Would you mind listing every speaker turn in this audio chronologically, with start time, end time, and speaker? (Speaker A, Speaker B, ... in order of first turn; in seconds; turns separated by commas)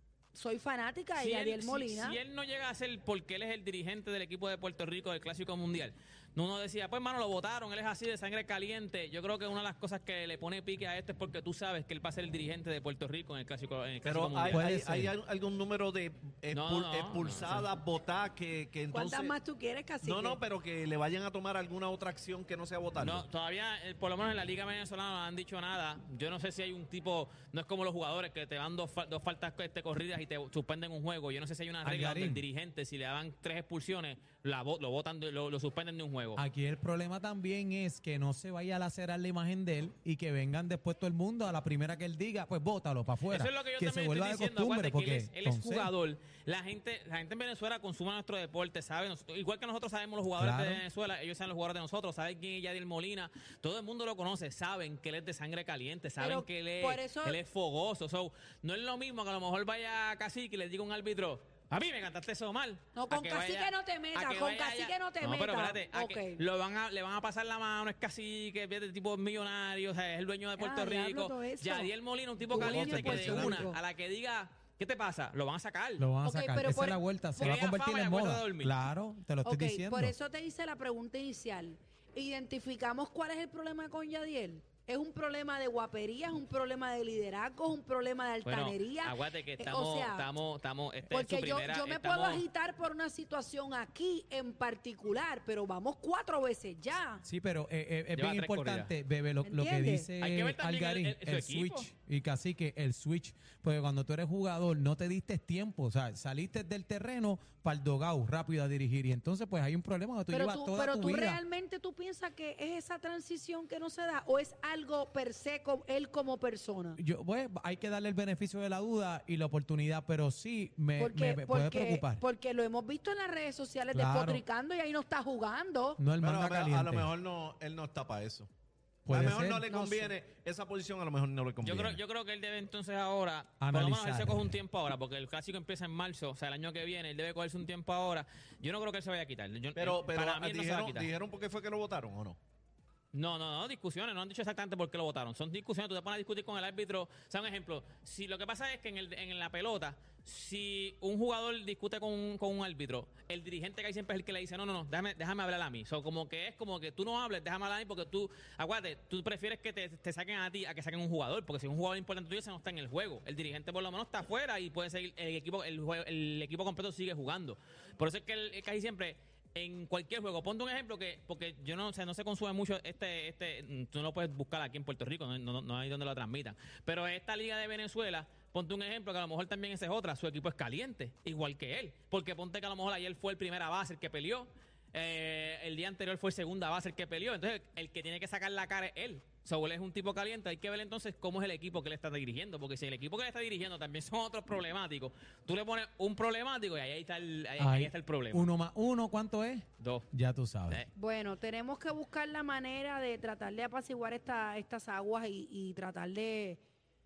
Speaker A: 0.3-2.2, Speaker B: 1.2-14.7, Speaker C: 14.0-19.3, Speaker D: 14.5-15.1, Speaker B: 16.5-17.6, Speaker A: 18.9-20.4, Speaker C: 20.0-23.2, Speaker B: 23.0-36.4, Speaker D: 31.8-32.4, Speaker D: 36.4-45.9, Speaker B: 43.3-76.0, Speaker D: 50.4-50.8, Speaker A: 56.2-57.4, Speaker A: 62.9-66.4, Speaker A: 70.6-73.8, Speaker D: 72.6-73.6, Speaker D: 76.0-80.1, Speaker A: 76.2-77.6, Speaker B: 77.4-78.8, Speaker A: 79.4-90.3, Speaker B: 88.4-92.4, Speaker A: 91.1-97.2, Speaker D: 97.2-111.4, Speaker B: 98.1-98.9, Speaker A: 99.4-100.1, Speaker B: 100.2-101.9, Speaker A: 110.3-117.0, Speaker D: 117.0-122.2, Speaker A: 121.0-126.0, Speaker D: 123.9-124.4, Speaker D: 126.0-127.1, Speaker C: 126.2-128.5, Speaker D: 129.1-129.7, Speaker C: 129.1-132.0, Speaker A: 129.1-130.1, Speaker B: 131.6-141.1, Speaker D: 133.6-134.6, Speaker C: 139.8-142.4, Speaker B: 143.1-198.5, Speaker D: 197.6-200.8, Speaker B: 199.8-200.1, Speaker A: 200.9-206.6